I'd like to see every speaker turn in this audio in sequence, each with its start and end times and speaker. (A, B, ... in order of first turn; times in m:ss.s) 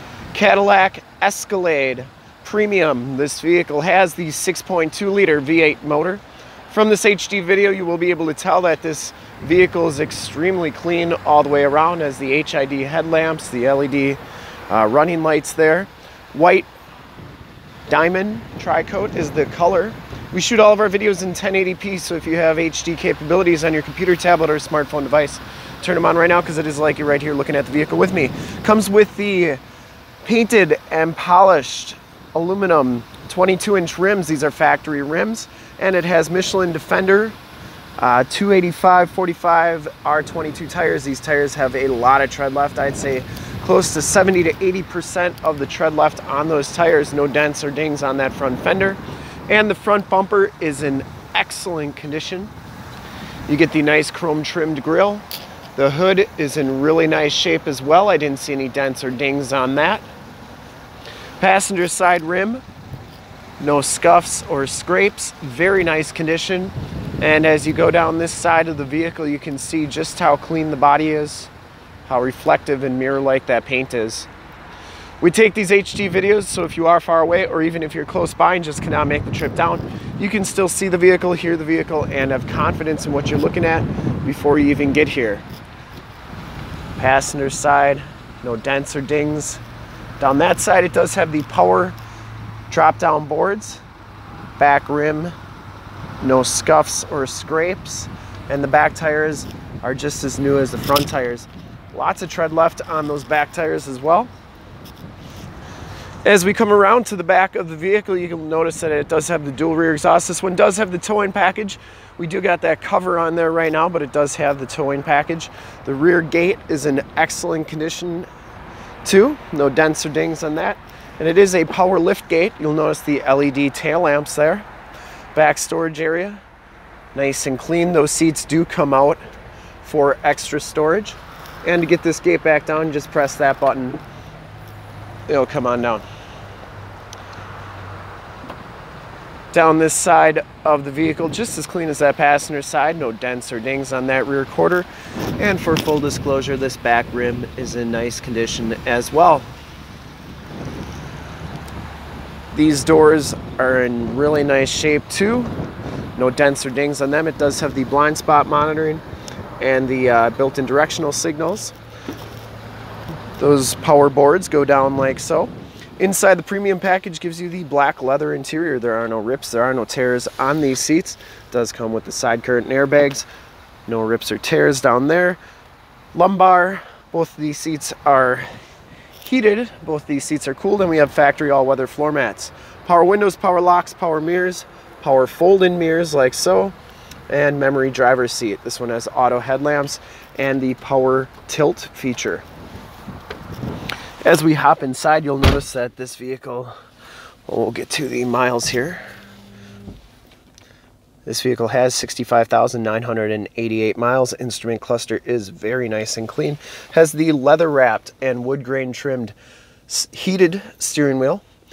0:00.3-0:16.7 A
0:17.9-0:29.6 A
0:30.2-0:37.4 A
0:38.0-0:52.5 A
0:53.5-0:55.2 A
0:55.8-1:00.0 A
1:01.4-1:02.6 A
1:03.6-1:11.5 A
1:12.0-1:14.3 A
1:15.2-1:25.4 A
1:27.0-1:29.6 A
1:30.2-1:32.0 A
1:32.7-1:33.8 A
1:34.6-1:35.3 A
1:36.2-1:44.3 A
1:46.2-1:58.3 A
1:59.0-2:04.6 A
2:05.3-2:06.4 A
2:07.1-2:09.2 A
2:09.8-2:14.0 A
2:15.3-2:16.0 A
2:19.5-2:29.4 A
2:32.5-2:35.5 A
2:36.2-2:39.0 A
2:39.6-2:41.7 A
2:43.4-2:53.3 A
2:53.9-2:55.4 A
2:56.1-2:58.5 A
2:59.2-3:06.7 A
3:07.3-3:12.4 A
3:14.2-3:16.7 A
3:17.5-3:19.0 A
3:21.2-3:29.3 A
3:29.9-3:31.4 A